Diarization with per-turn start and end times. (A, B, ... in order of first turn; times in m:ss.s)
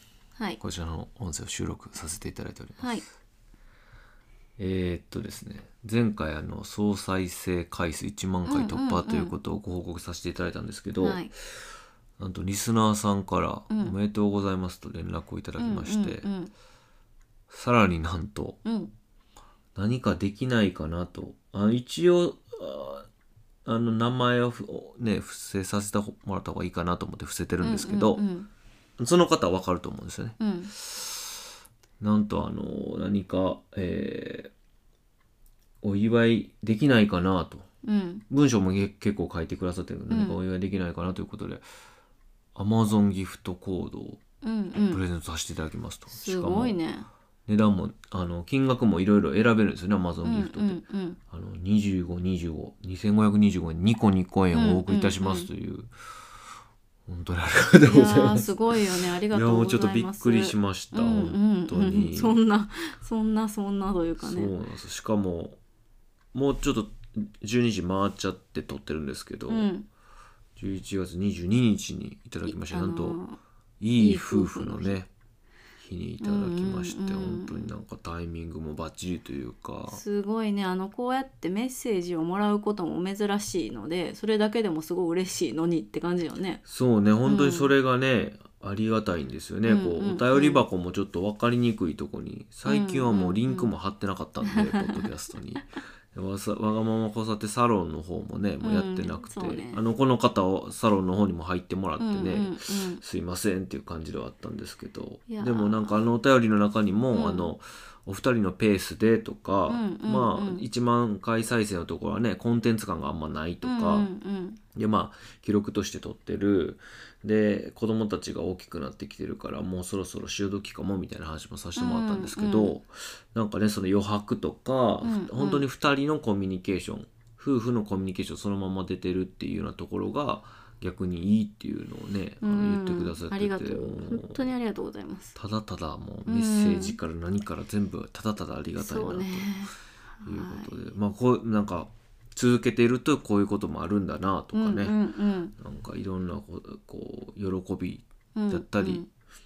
0:00.6-0:03.0 A
0:02.8-0:03.0 B
0:04.6-0:11.3 A
0:08.5-0:09.3 B
0:11.0-0:11.3 B
0:12.2-0:16.3 A
0:15.6-0:16.5 B
0:17.5-0:18.6 A
0:18.6-0:18.9 B
0:19.8-0:23.1 A
0:23.7-0:28.2 A
0:27.6-0:28.5 B
0:29.0-0:31.2 A
0:30.4-0:30.7 B
0:32.0-0:34.5 A
0:35.8-0:37.7 A
0:37.8-0:38.2 B
0:38.3-0:41.6 A
0:40.1-0:40.4 B
0:42.6-0:44.2 A
0:44.4-0:45.0 B
0:44.7-0:46.8 A
0:46.1-0:47.1 B
0:47.5-0:55.9 A
0:50.2-0:51.2 B
0:54.5-0:55.5 B
0:57.1-1:02.4 A
0:57.9-1:04.5 B
1:04.2-1:05.6 A
1:06.3-1:09.7 A
1:09.5-1:09.9 B
1:10.6-1:13.2 A
1:12.5-1:13.4 B
1:13.8-1:15.1 A
1:14.0-1:15.0 B
1:15.8-1:20.0 A
1:16.2-1:17.7 B
1:19.9-1:26.6 B
1:26.7-1:54.1 A
1:27.3-1:27.7 B
1:29.7-1:30.6 B
1:32.7-1:33.7 B
1:34.4-1:35.1 B
1:38.6-1:39.8 B
1:42.0-1:43.0 B
1:45.3-1:46.0 B
1:47.1-1:47.5 B
1:49.7-1:50.7 B
1:53.6-1:54.6 B
1:54.7-2:14.5 A
2:01.8-2:02.8 B
2:05.0-2:05.6 B
2:12.4-2:15.4 B
2:15.4-2:19.7 A
2:16.3-2:17.0 B
2:18.8-2:20.8 B
2:20.2-2:25.0 A
2:24.5-2:25.5 B
2:25.6-2:29.0 A
2:28.4-2:29.1 B